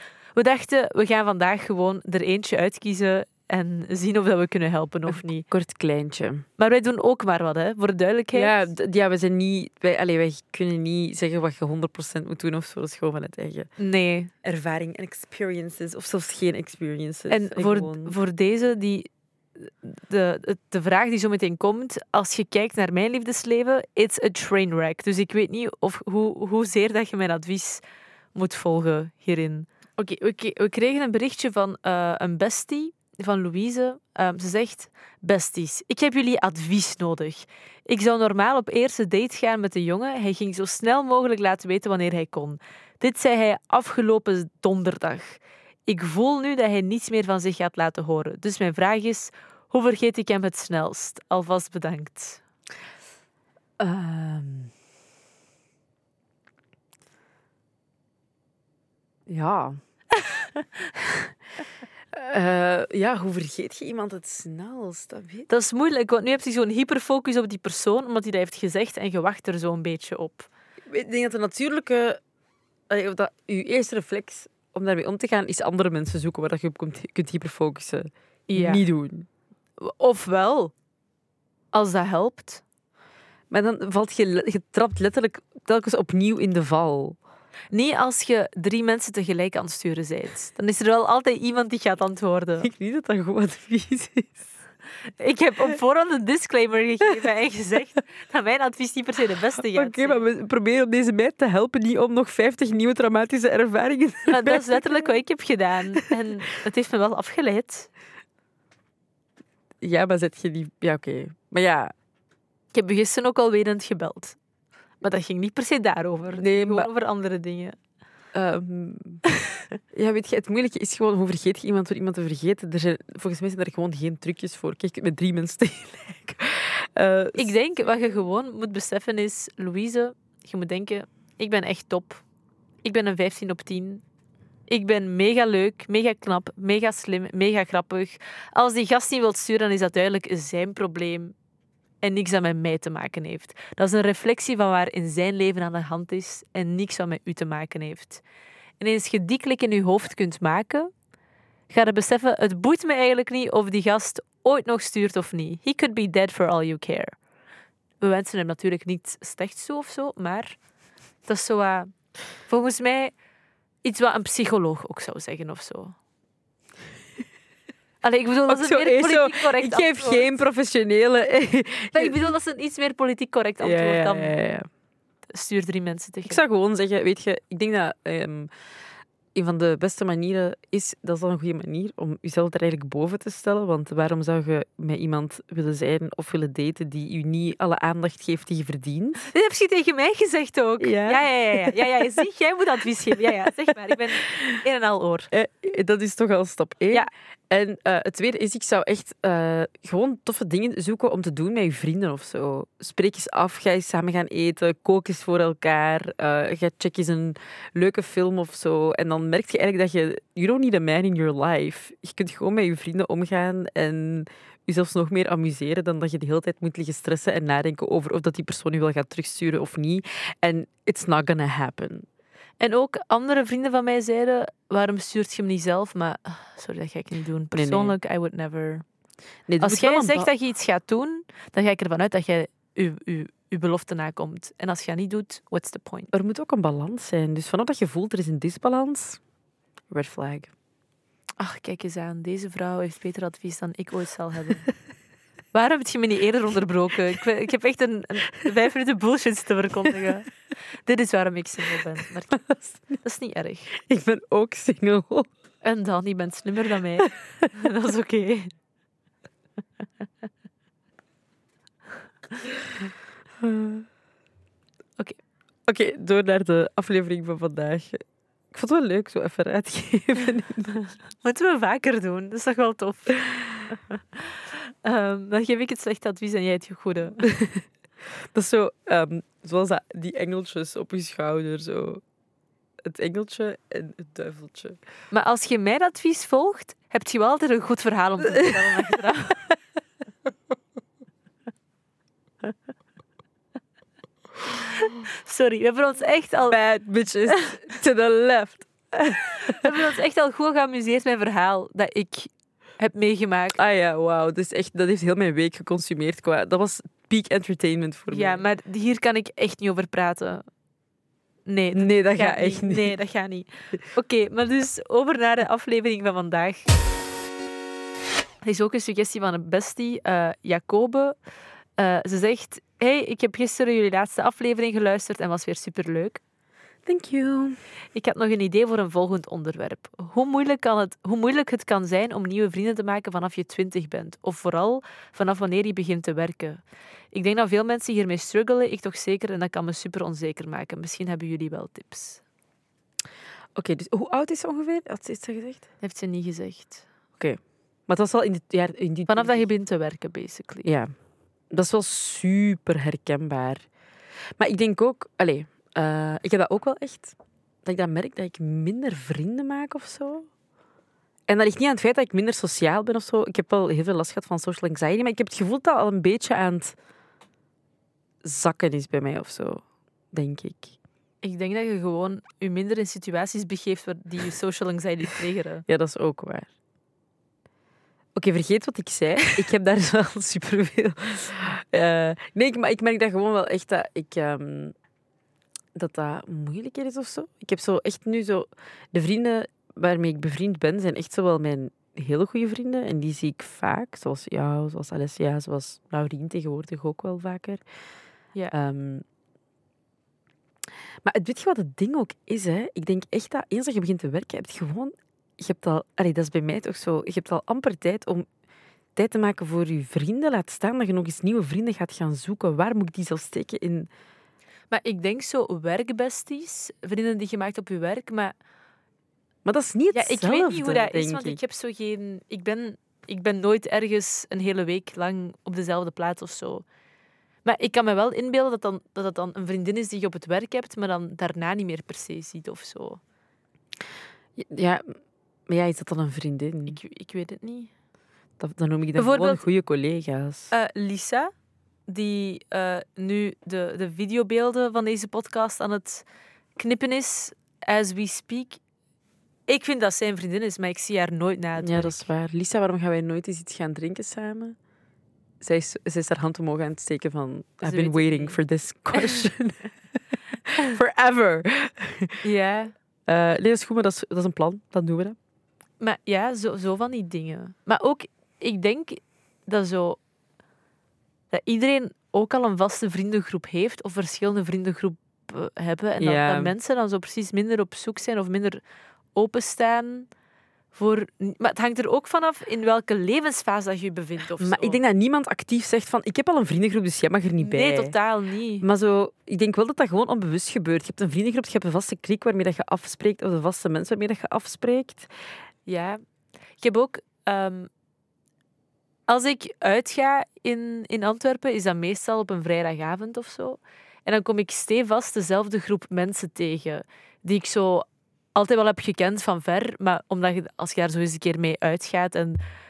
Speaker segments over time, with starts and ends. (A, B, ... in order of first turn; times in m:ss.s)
0:00.4-0:05.4 A
0:05.1-0:06.5 B
0:06.6-0:08.6 A
0:08.3-0:13.7 B
0:13.8-0:14.3 A
0:14.4-0:18.2 B
0:17.3-0:27.8 A
0:28.4-0:52.4 A
0:53.8-0:54.7 B
0:59.3-0:59.8 B
1:00.2-1:00.6 A
1:02.1-1:05.5 B
1:05.5-1:10.5 A
1:10.9-1:12.2 B
1:12.9-1:19.3 B
1:18.5-1:18.8 A
1:19.8-1:20.7 A
1:21.7-1:22.6 A
1:23.5-1:27.2 B
1:27.7-1:32.7 A
1:32.6-1:34.5 B
1:35.2-1:40.2 A
1:39.7-1:45.1 B
1:44.3-1:47.9 A
1:49.8-1:51.9 B
1:52.7-1:54.4 A
1:55.0-1:57.8 A
1:56.4-1:56.9 B
1:58.3-1:59.2 B
1:59.9-2:07.5 B
2:07.4-2:12.2 A
2:12.8-2:14.0 A
2:14.7-2:21.4 A
2:22.0-2:28.2 A
2:28.8-2:30.9 A
2:31.7-2:37.2 A
2:38.0-2:40.6 A
2:41.2-2:41.9 A
2:42.5-2:43.2 A
2:43.8-2:46.0 A
2:48.0-2:50.3 A
2:48.5-2:52.2 B
2:51.9-2:54.4 A
2:53.6-2:54.7 B
2:55.3-2:56.4 A
2:56.2-2:58.5 B
2:59.3-3:09.3 B
3:09.3-3:15.3 A
3:10.8-3:12.2 B
3:13.9-3:14.4 B
3:15.3-3:42.1 B
3:42.6-3:48.9 A
3:47.5-3:48.0 B
3:49.5-3:50.3 B
3:49.6-3:56.1 A
3:56.1-3:59.2 B
3:59.9-4:00.5 B
4:01.4-4:04.7 A
4:05.5-4:10.3 A
4:10.8-4:13.7 A
4:12.3-4:13.0 B
4:13.8-4:15.3 B
4:15.6-4:18.5 A
4:23.4-4:23.9 B
4:25.7-4:30.8 B
4:31.2-4:37.3 A
4:37.2-4:37.7 B
4:38.2-4:42.0 B
4:42.8-4:44.8 B
4:45.1-4:49.5 A
4:48.4-4:48.8 B
4:54.8-4:56.6 A
4:56.5-4:59.7 B
4:57.3-4:57.6 A
4:59.5-5:03.6 A
5:03.6-5:08.4 B
5:08.1-5:10.5 A
5:11.5-5:16.7 A
5:11.8-5:13.0 B
5:18.4-5:21.2 A
5:21.8-5:26.2 A
5:26.9-5:27.6 B
5:28.0-5:42.2 A
5:43.6-5:45.7 B
5:45.8-5:46.9 A
5:47.2-5:49.4 B
5:49.1-5:50.7 A
5:50.6-5:50.9 B
5:51.5-5:53.7 B
5:54.4-6:00.3 B
6:01.3-6:06.8 B
6:08.2-6:10.8 B
6:11.2-6:15.6 A
6:15.7-6:16.5 B
6:18.2-6:24.8 B
6:25.8-6:37.6 B
6:38.5-6:39.0 B
6:41.0-6:48.3 B
6:49.0-6:53.9 B
6:54.7-6:58.3 A
6:59.4-7:01.4 B
6:59.9-7:06.6 A
7:07.4-7:13.0 A
7:14.4-7:16.8 B
7:16.7-7:17.7 A
7:18.4-7:20.5 B
7:19.0-7:19.4 A
7:20.5-7:21.3 A
7:21.9-7:26.1 A
7:26.6-7:28.6 A
7:29.5-7:32.1 A
7:31.6-7:34.6 B
7:35.4-7:42.2 B
7:37.6-7:38.4 A
7:38.9-7:39.2 A
7:42.2-7:42.7 A
7:43.1-7:45.2 B
7:45.8-7:50.0 A
7:51.3-7:58.6 A
7:56.0-7:56.5 B
7:59.2-8:00.1 A
8:00.7-8:04.8 A
8:04.4-8:07.9 B
8:07.4-8:08.7 A
8:08.6-8:15.1 B
8:15.7-8:16.0 A
8:16.6-8:17.7 A
8:19.1-8:32.4 A